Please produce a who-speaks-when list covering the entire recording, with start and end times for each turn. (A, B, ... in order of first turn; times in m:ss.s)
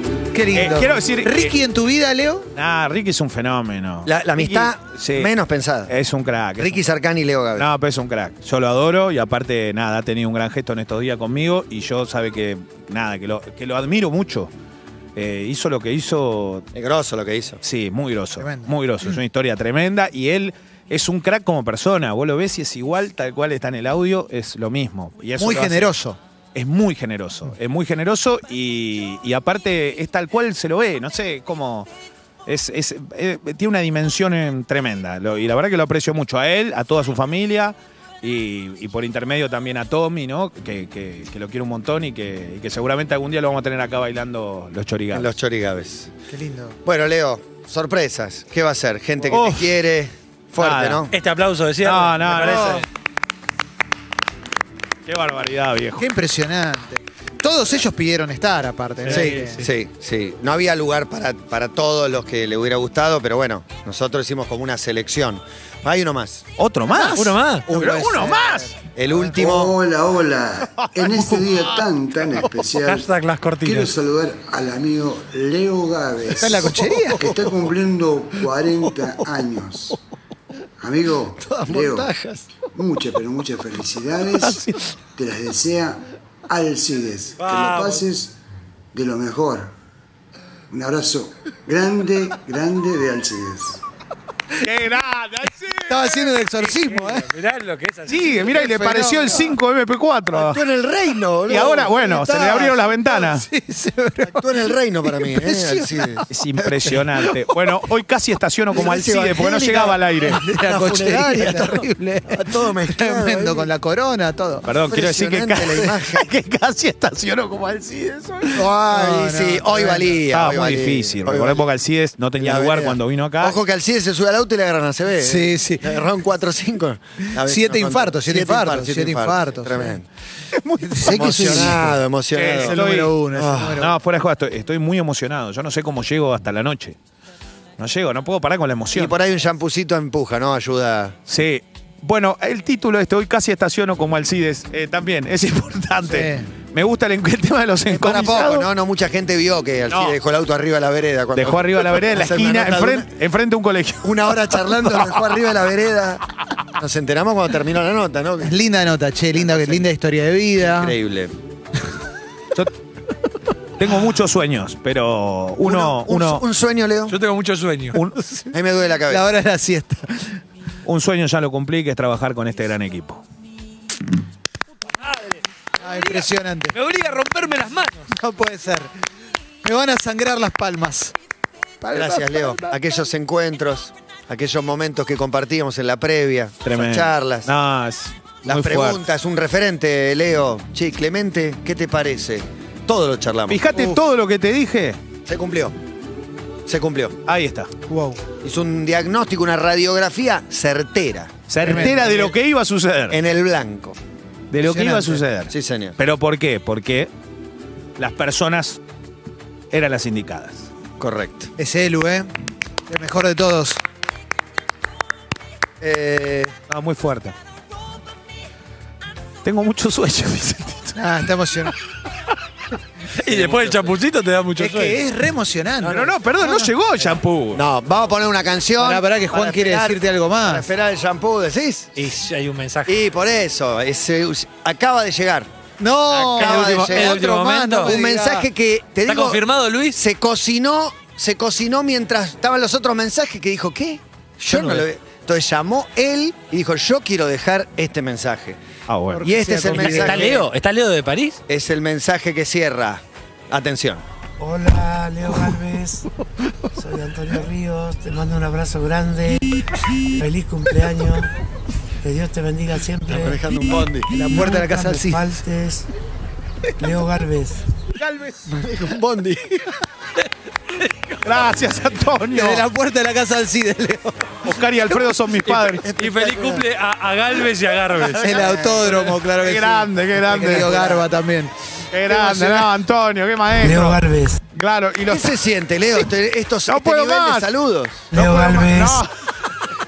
0:00.3-0:02.5 A
0:00.5-0:01.6 B
0:02.6-0:05.3 B
0:04.1-0:05.9 C
0:05.9-0:06.9 B
0:06.6-0:07.7 C
0:07.6-0:14.5 B
0:15.2-0:16.6 B
0:16.8-0:17.6 C
0:17.6-0:26.0 B
0:18.4-0:18.7 A
0:25.4-0:26.2 A
0:26.6-0:31.9 B
0:32.5-0:45.3 B
0:45.1-0:46.1 C
0:46.3-0:46.8 A
0:46.8-0:51.1 C
0:49.3-0:49.8 B
0:50.6-0:51.0 B
0:51.1-0:52.8 D
0:51.8-0:52.8 B
0:52.3-0:52.8 A
0:55.1-0:56.0 B
0:56.0-0:59.6 A
0:59.0-0:59.7 D
0:59.1-1:06.4 C
1:06.6-1:08.7 B
1:06.9-1:09.4 A
1:07.1-1:07.7 D
1:09.0-1:09.8 C
1:09.3-1:20.0 E
1:10.8-1:11.7 B
1:12.8-1:14.0 D
1:16.4-1:17.3 A
1:20.8-1:22.1 E
1:21.4-1:22.5 C
1:22.7-1:28.4 E
1:24.4-1:24.8 B
1:27.4-1:28.1 D
1:28.9-1:29.7 E
1:30.7-1:33.8 E
1:34.6-1:36.3 B
1:35.9-1:37.3 A
1:36.8-1:38.5 D
1:38.1-1:40.6 B
1:38.5-1:39.6 A
1:40.3-1:42.8 C
1:41.5-1:43.4 B
1:43.1-1:46.3 A
1:44.3-1:46.2 C
1:46.3-1:50.4 B
1:47.4-1:47.7 A
1:48.7-1:53.7 C
1:50.3-1:54.8 A
1:54.6-1:58.6 B
1:54.9-1:56.2 C
1:55.4-1:55.9 A
1:58.5-2:01.7 C
1:58.9-2:00.1 A
2:00.3-2:03.6 B
2:02.4-2:10.1 C
2:05.2-2:06.0 A
2:07.3-2:10.0 A
2:10.5-2:13.2 B
2:10.8-2:12.0 A
2:11.0-2:12.8 C
2:12.5-2:13.9 A
2:13.3-2:13.8 C
2:13.8-2:17.0 B
2:17.8-2:19.1 B
2:19.0-2:21.2 C
2:21.3-2:28.7 B
2:26.1-2:26.5 A
2:27.9-2:33.1 C
2:29.9-2:30.2 B
2:31.4-2:35.1 B
2:34.0-2:36.2 C
2:36.8-2:38.5 C
2:38.4-2:40.9 A
2:39.4-2:39.8 C
2:40.6-2:41.3 C
2:43.8-2:46.4 B
2:45.6-2:47.2 C
2:47.1-2:48.0 D
2:47.9-2:48.4 B
2:48.5-2:49.3 C
2:49.1-2:50.4 A
2:50.8-2:53.2 B
2:55.0-2:58.1 D
2:55.8-2:56.8 A
2:58.2-2:58.9 A
2:59.6-3:01.1 A
3:01.8-3:02.7 A
3:01.9-3:07.5 C
3:06.6-3:09.0 B
3:08.4-3:13.6 C
3:13.5-3:15.0 B
3:13.7-3:14.0 A
3:15.2-3:15.8 C
3:16.7-3:17.2 C
3:17.3-3:17.7 B
3:17.9-3:18.2 A
3:18.4-3:22.3 C
3:21.5-3:23.2 B
3:21.6-3:22.0 A
3:23.1-3:24.0 C
3:24.5-3:27.1 B
3:24.6-3:25.2 A
3:25.5-3:26.0 C
3:28.0-3:28.8 B
3:29.7-3:30.7 B
3:31.0-3:31.5 C
3:31.6-3:32.3 A
3:32.9-3:33.8 A
3:35.8-3:36.6 C
3:36.7-3:37.4 B
3:39.4-3:41.0 B
3:41.0-3:41.8 A
3:43.2-3:45.0 D
3:43.3-3:43.8 C
3:44.6-3:46.7 A
3:45.8-3:47.6 B
3:47.5-3:52.1 C
3:48.8-3:50.7 A
3:52.0-3:53.0 D
3:52.9-3:55.5 C
3:55.8-3:58.5 A
3:56.3-3:58.0 D
3:56.4-3:57.3 C
3:57.8-4:08.6 C
3:59.1-4:00.0 D
4:08.9-4:09.3 B
4:09.2-4:10.4 A
4:09.2-4:10.5 C
4:09.8-4:11.4 D
4:11.5-4:14.0 C
4:14.4-4:16.1 F
4:16.8-4:19.6 F
4:20.2-4:21.3 F
4:22.0-4:23.4 F
4:23.1-4:24.1 C
4:24.1-4:25.3 A
4:24.3-4:25.9 F
4:26.8-4:27.6 F
4:28.0-4:28.4 B
4:28.5-4:29.7 C
4:30.8-4:31.2 D
4:31.2-4:32.6 B
4:32.3-4:34.3 A
4:34.4-4:35.9 B
4:35.5-4:38.8 D
4:35.9-4:36.6 C
4:38.2-4:41.5 A
4:39.4-4:40.9 B
4:41.9-4:44.0 B
4:42.1-4:42.7 A
4:43.6-4:44.4 F
4:44.6-4:45.4 B
4:45.1-4:48.1 C
4:46.7-4:47.5 B
4:48.1-4:49.0 F
4:48.1-4:49.1 B